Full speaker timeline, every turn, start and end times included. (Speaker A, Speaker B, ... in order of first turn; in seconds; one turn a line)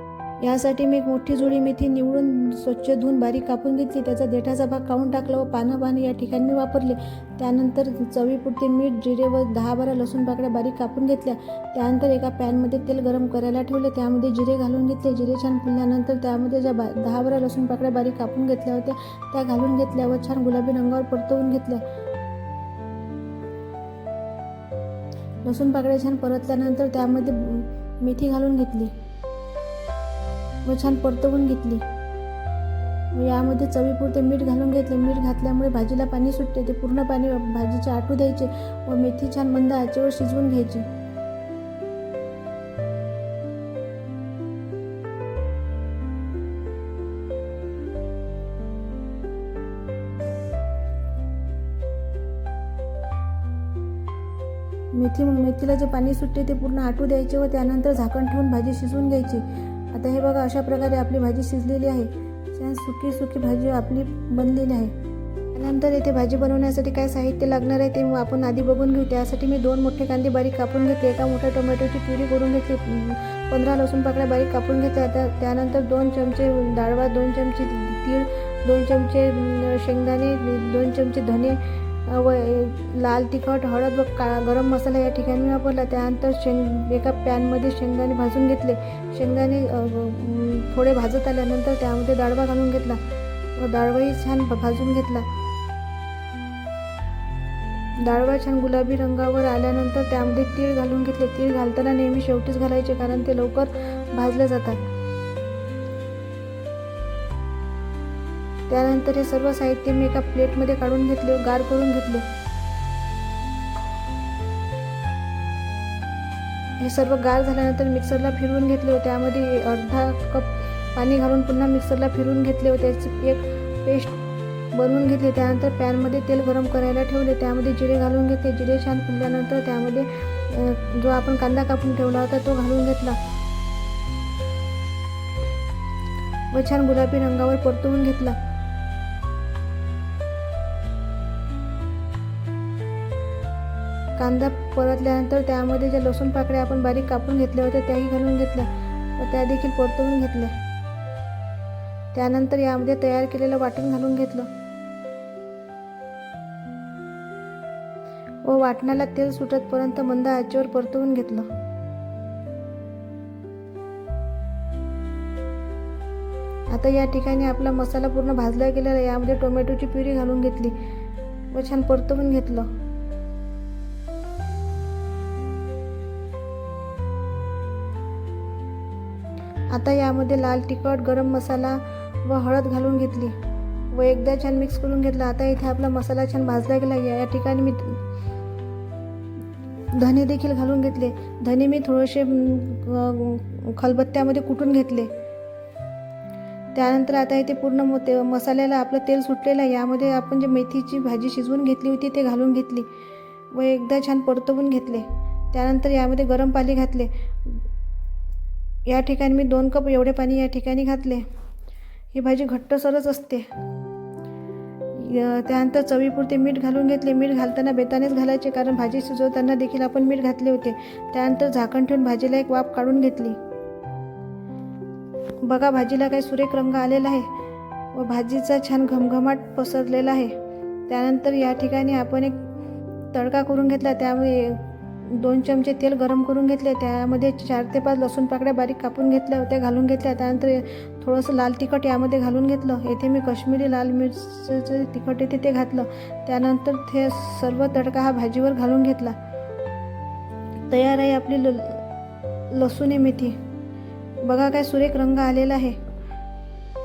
Speaker A: 0.4-21.8
Speaker A: 25.4-28.9
Speaker A: 30.6-31.8
Speaker A: 33.1-40.9
Speaker A: 54.9-64.9
Speaker A: 65.5-93.0
Speaker A: 93.6-95.3
Speaker A: 98.0-104.8
Speaker A: 108.7-112.3
Speaker A: 116.8-124.2
Speaker A: 124.7-133.2
Speaker A: 136.5-138.4
Speaker A: 144.2-150.6
Speaker A: 152.1-154.5
Speaker A: 158.4-161.5
Speaker A: 166.7-170.8
Speaker A: 171.5-172.7
Speaker A: 179.7-183.3
Speaker A: 183.9-188.0
Speaker A: 189.9-195.1
Speaker A: 196.7-202.9
Speaker A: 203.5-207.6
Speaker A: 208.9-211.2
Speaker A: 212.1-213.5
Speaker A: 214.9-223.4
Speaker A: 225.4-227.3
Speaker A: 227.9-230.4
Speaker A: 230.9-232.5
Speaker A: 233.1-249.2
Speaker A: 250.7-251.8
Speaker A: 252.5-253.4
Speaker A: 254.2-255.8